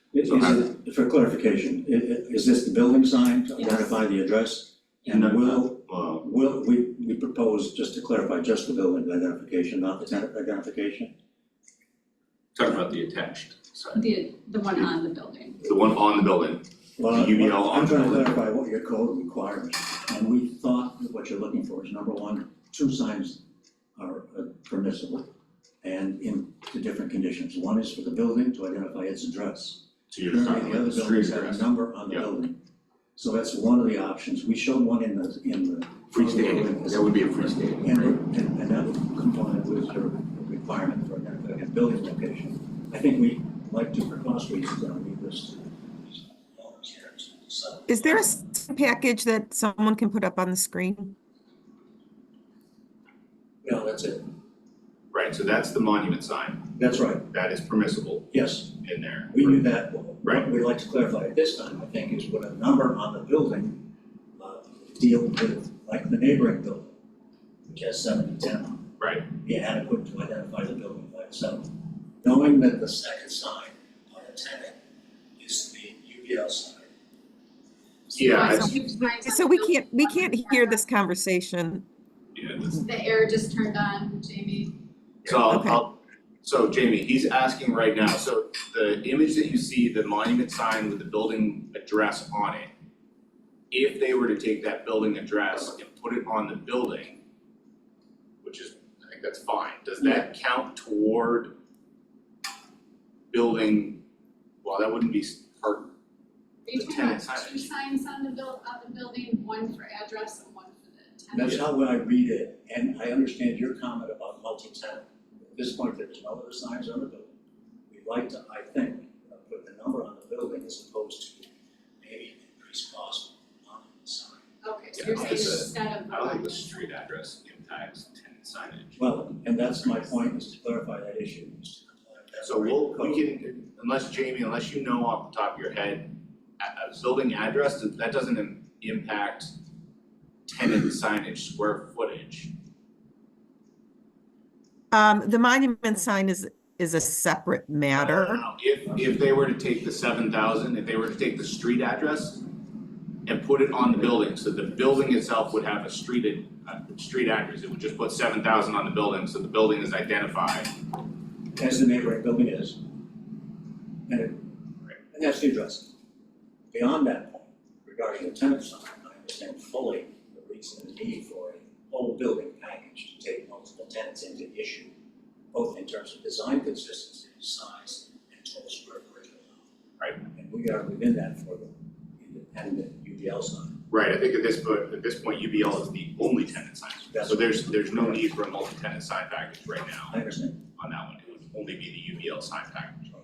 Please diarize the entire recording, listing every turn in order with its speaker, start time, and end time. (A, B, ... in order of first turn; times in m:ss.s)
0:00.1-0:11.1 A
0:00.2-0:00.6 B
0:03.6-0:03.9 C
0:05.1-0:06.2 B
0:12.6-0:14.0 B
0:13.9-0:15.6 C
0:15.6-0:18.4 B
0:17.0-0:23.4 A
0:24.0-0:25.2 A
0:25.8-0:32.6 A
0:30.1-0:32.3 B
0:33.2-0:37.1 A
0:36.1-0:38.2 B
0:37.8-0:48.3 A
0:47.9-0:51.2 D
0:53.6-0:54.3 A
0:55.1-0:56.7 B
0:56.7-0:57.2 A
0:57.3-0:59.6 B
0:58.3-0:58.7 A
0:59.3-1:03.8 A
1:04.4-1:06.9 A
1:07.7-1:11.7 A
1:09.0-1:09.3 B
1:12.2-1:14.8 A
1:15.4-1:16.9 A
1:18.1-1:18.8 B
1:18.2-1:20.8 C
1:19.1-1:21.8 D
1:22.3-1:22.8 B
1:22.7-1:24.8 C
1:25.2-1:32.7 B
1:25.5-1:25.8 D
1:33.7-1:37.2 B
1:38.4-1:41.6 B
1:43.3-1:44.0 B
1:44.6-1:45.9 B
1:46.6-1:51.7 C
1:46.7-1:47.7 B
1:51.3-1:57.3 A
1:57.9-2:01.5 A
2:02.0-2:04.4 A
2:04.6-2:06.6 C
2:05.0-2:09.0 B
2:09.0-2:13.2 A
2:12.4-2:19.5 B
2:20.5-2:22.5 B
2:24.9-2:28.4 D
2:27.9-2:32.4 B
2:33.2-2:40.7 B
2:41.6-2:42.8 A
2:44.1-2:44.5 A
2:45.1-2:45.9 A
2:46.7-2:54.9 A
2:55.5-2:59.7 A
3:00.2-3:03.8 A
3:03.9-3:10.1 B
3:07.1-3:08.2 A
3:10.1-3:10.6 A
3:10.8-3:13.1 B